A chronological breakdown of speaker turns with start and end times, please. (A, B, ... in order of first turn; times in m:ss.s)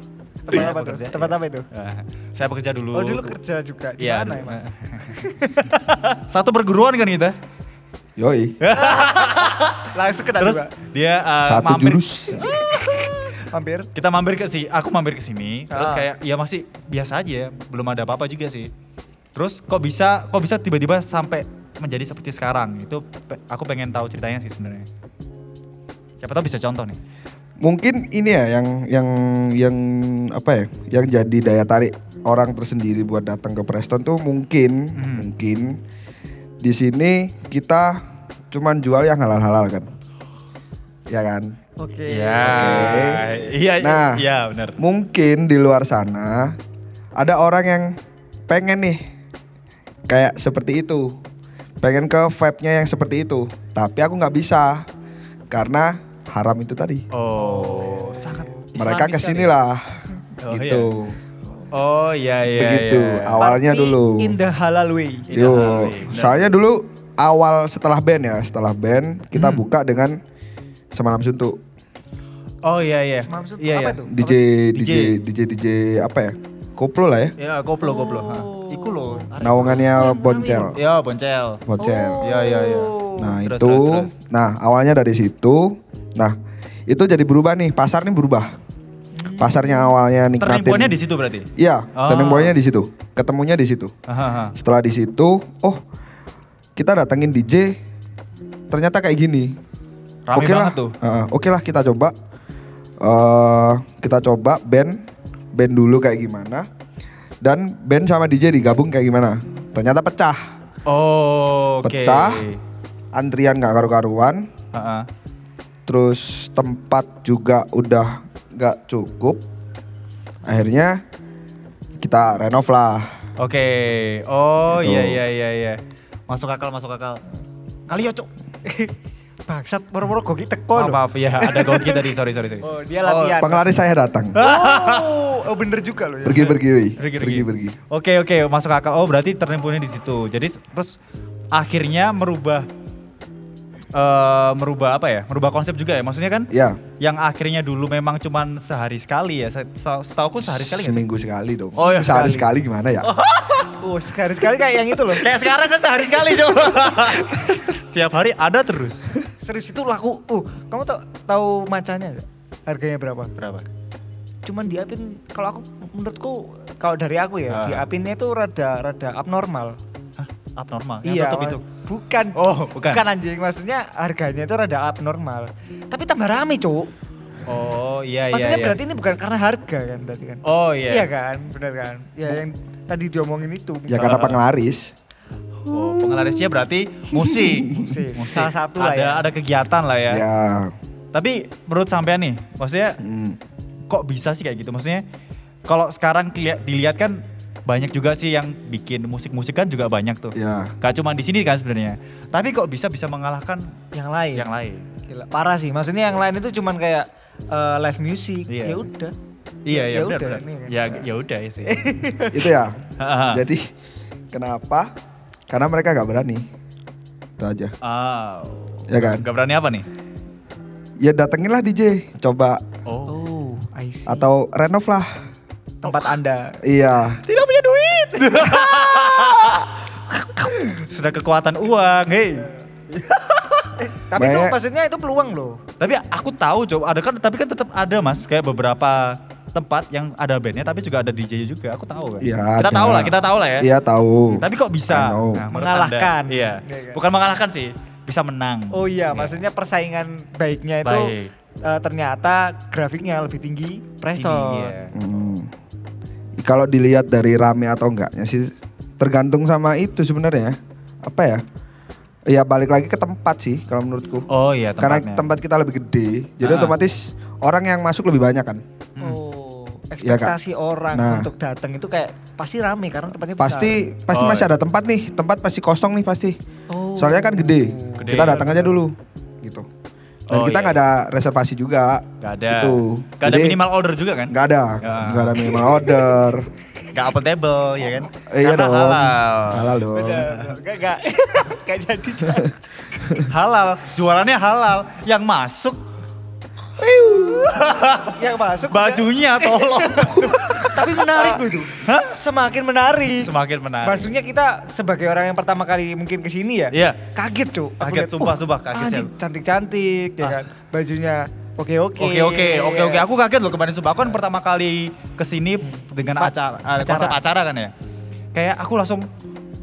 0:00.4-0:01.6 A
0:00.5-0:03.4 B
0:02.9-0:05.8 A
0:04.0-0:07.4 B
0:08.2-0:08.6 C
0:08.6-0:13.3 B
0:08.7-0:10.7 A
0:11.4-0:12.5 C
0:12.4-0:13.9 A
0:13.9-0:18.7 B
0:15.7-0:16.1 A
0:19.3-0:24.8 B
0:26.2-0:27.0 B
0:27.6-0:35.8 C
0:35.0-0:35.3 B
0:36.6-0:39.9 C
0:41.1-0:41.5 C
0:41.8-0:43.4 A
0:42.1-0:44.8 B
0:42.4-0:43.2 C
0:43.8-0:44.2 C
0:44.8-0:46.6 C
0:47.2-0:47.9 C
0:48.5-0:49.0 C
0:50.1-0:51.2 C
0:51.8-0:54.9 C
0:55.5-0:57.0 C
0:57.1-0:59.5 B
0:57.4-0:58.5 A
0:58.8-1:01.2 C
1:00.4-1:00.9 B
1:01.7-1:03.4 B
1:02.5-1:04.4 C
1:03.4-1:05.4 A
1:05.3-1:06.4 B
1:05.3-1:10.2 C
1:09.3-1:09.6 B
1:10.9-1:11.6 C
1:12.6-1:14.1 B
1:13.2-1:14.4 A
1:14.1-1:17.3 C
1:14.7-1:15.2 B
1:17.4-1:20.1 B
1:17.8-1:19.2 A
1:19.4-1:20.8 C
1:19.9-1:20.8 A
1:20.7-1:21.6 B
1:21.6-1:22.2 C
1:21.8-1:23.3 A
1:22.2-1:24.1 B
1:23.2-1:26.4 C
1:26.9-1:28.5 C
1:29.1-1:29.9 A
1:29.4-1:31.0 C
1:30.4-1:32.5 B
1:31.6-1:33.9 C
1:34.1-1:34.5 B
1:34.5-1:35.8 C
1:36.8-1:37.8 C
1:38.7-1:39.6 C
1:40.3-1:40.9 B
1:40.3-1:42.1 C
1:43.0-1:46.7 C
1:47.4-1:50.5 C
1:50.8-1:52.6 B
1:51.8-1:52.4 C
1:53.1-1:54.5 C
1:54.7-1:55.1 B
1:55.8-1:59.4 C
2:00.4-2:01.0 C
2:02.0-2:03.1 C
2:03.4-2:07.2 B
2:04.7-2:05.2 C
2:07.9-2:08.3 B
2:08.6-2:08.9 A
2:09.5-2:12.0 A
2:10.8-2:13.4 B
2:12.6-2:13.7 A
2:13.4-2:14.4 C
2:14.4-2:15.3 B
2:14.4-2:16.6 A
2:16.2-2:17.8 C
2:17.0-2:21.0 B
2:21.5-2:22.7 B
2:23.9-2:31.0 B
2:26.5-2:26.8 C
2:30.4-2:33.1 C
2:31.8-2:32.5 B
2:31.8-2:32.4 A
2:33.0-2:33.8 B
2:33.7-2:35.3 A
2:35.1-2:39.0 B
2:36.6-2:37.6 A
2:39.4-2:43.3 A
2:43.4-2:43.7 B
2:44.4-2:49.8 A
2:47.5-2:47.8 B
2:50.2-2:51.6 B
2:51.0-2:56.9 A
2:52.4-2:53.0 B
2:57.4-2:58.8 B
2:58.3-3:04.1 A
3:00.4-3:01.1 B
3:03.9-3:04.9 C
3:04.0-3:04.4 B
3:05.7-3:10.2 B
3:05.7-3:06.3 A
3:07.3-3:07.7 C
3:07.7-3:09.3 A
3:10.1-3:10.7 C
3:11.1-3:13.0 B
3:13.0-3:13.4 C
3:13.9-3:15.0 B
3:15.7-3:23.7 B
3:20.3-3:20.7 C
3:23.9-3:24.5 A
3:24.3-3:24.9 B
3:25.1-3:29.1 A
3:28.5-3:28.8 B
3:29.7-3:31.8 B
3:29.7-3:31.0 A
3:31.6-3:32.5 A
3:32.3-3:33.7 C
3:33.0-3:33.4 B
3:34.3-3:34.9 C
3:35.5-3:36.5 C
3:37.4-3:37.7 C
3:37.8-3:39.9 B
3:38.9-3:39.3 C
3:41.0-3:42.6 C
3:42.8-3:43.2 B
3:43.1-3:44.3 A
3:44.1-3:45.2 C
3:45.8-3:46.6 A
3:45.8-3:46.1 B
3:46.6-3:47.2 C
3:47.2-3:53.8 B
3:48.5-3:49.6 A
3:53.8-3:55.6 A
3:54.1-3:54.6 C
3:55.8-4:03.7 B
4:02.2-4:05.5 C
4:04.3-4:09.4 B
4:05.5-4:07.0 A
4:08.7-4:14.7 A
4:10.8-4:11.3 B
4:14.2-4:14.9 B
4:14.9-4:15.5 C
4:16.4-4:21.4 C
4:22.3-4:28.6 C
4:24.3-4:25.3 B
4:26.4-4:26.8 B
4:29.0-4:33.8 A
4:30.0-4:30.4 C
4:30.9-4:31.3 C
4:33.4-4:36.4 C
4:34.1-4:34.5 B
4:36.7-4:38.4 A
4:37.0-4:39.7 C
4:38.0-4:38.8 B
4:40.3-4:43.6 C
4:40.3-4:40.8 B
4:42.2-4:45.6 B
4:44.3-4:46.5 C
4:46.9-4:50.6 B
4:48.2-4:50.3 C
4:49.9-4:52.6 A
4:53.2-4:55.8 B
4:57.1-5:02.1 B
4:58.1-5:03.3 A
5:03.2-5:04.1 B
5:03.8-5:13.0 A
5:06.7-5:07.0 B
5:07.8-5:09.1 B
5:12.0-5:17.7 B
5:15.7-5:17.2 A
5:18.3-5:19.1 B